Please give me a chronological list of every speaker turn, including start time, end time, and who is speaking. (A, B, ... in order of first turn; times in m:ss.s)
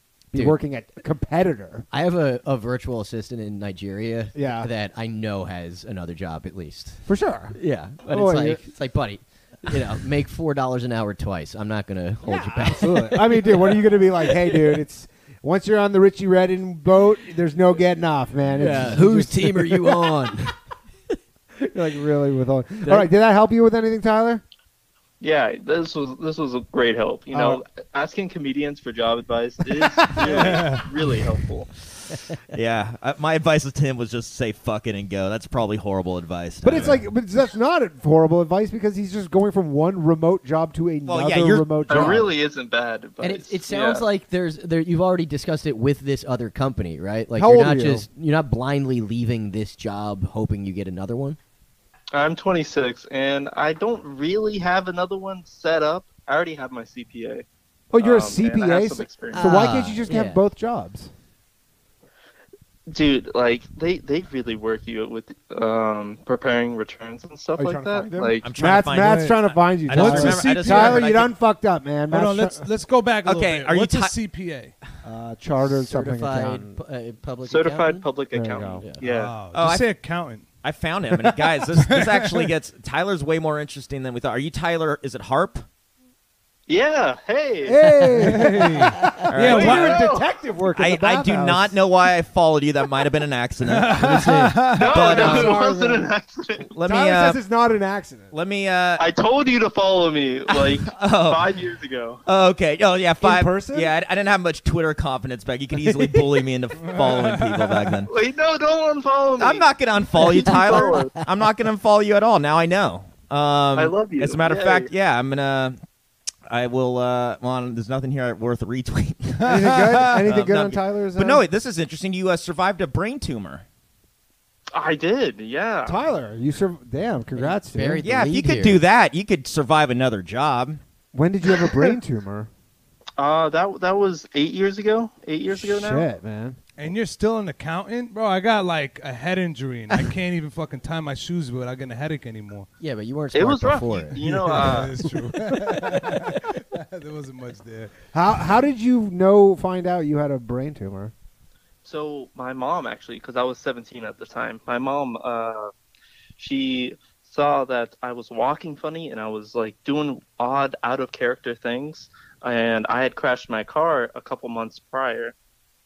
0:00.3-0:01.9 A
0:01.9-0:13.7 B
0:04.4-0:04.7 A
0:07.1-0:08.6 A
0:12.2-0:20.1 A
0:18.6-0:20.5 B
0:21.7-0:24.4 A
0:22.8-0:23.1 B
0:25.2-0:31.7 C
0:27.3-0:27.6 A
0:30.2-0:30.9 D
0:30.2-0:30.6 A
0:32.5-0:37.1 E
0:36.6-0:42.3 A
0:41.1-0:42.2 E
0:41.9-0:44.0 C
0:43.2-0:51.4 B
0:47.4-0:48.1 A
0:52.1-0:57.4 C
0:57.9-1:01.1 A
0:58.0-0:59.4 C
0:59.3-1:00.4 B
1:02.9-1:08.4 C
1:07.6-1:12.7 A
1:08.4-1:11.3 E
1:08.9-1:11.1 D
1:12.1-1:14.8 D
1:13.2-1:14.2 E
1:15.0-1:16.8 A
1:15.6-1:18.1 B
1:17.5-1:19.3 C
1:18.3-1:18.8 A
1:19.0-1:20.5 D
1:19.5-1:19.9 E
1:20.6-1:25.6 E
1:21.7-1:22.5 D
1:26.7-1:27.8 C
1:27.6-1:31.8 A
1:28.2-1:30.0 D
1:29.3-1:30.0 E
1:29.5-1:30.2 C
1:30.8-1:34.3 E
1:33.6-1:35.0 D
1:34.0-1:34.5 B
1:34.8-1:36.7 C
1:34.9-1:35.6 E
1:35.0-1:36.1 A
1:36.7-1:37.4 E
1:36.8-1:38.3 A
1:38.3-1:39.1 E
1:39.0-1:42.2 C
1:40.5-1:41.4 E
1:42.3-1:48.1 E
1:43.2-1:43.9 A
1:46.8-1:47.9 D
1:48.1-1:49.7 C
1:49.4-1:55.8 E
1:50.2-1:51.1 C
1:50.5-1:51.2 B
1:53.8-1:54.9 C
1:56.5-2:03.6 E
1:59.4-2:00.2 D
1:59.5-2:01.5 A
2:04.7-2:06.0 C
2:05.9-2:08.0 A
2:07.4-2:08.8 B
2:08.0-2:10.8 E
2:11.1-2:12.5 A
2:13.2-2:16.1 C
2:15.5-2:16.6 A
2:16.8-2:22.7 D
2:22.8-2:24.2 B
2:23.3-2:24.9 C
2:24.2-2:27.9 D
2:28.1-2:31.1 A
2:31.8-2:35.7 C
2:36.4-2:45.4 C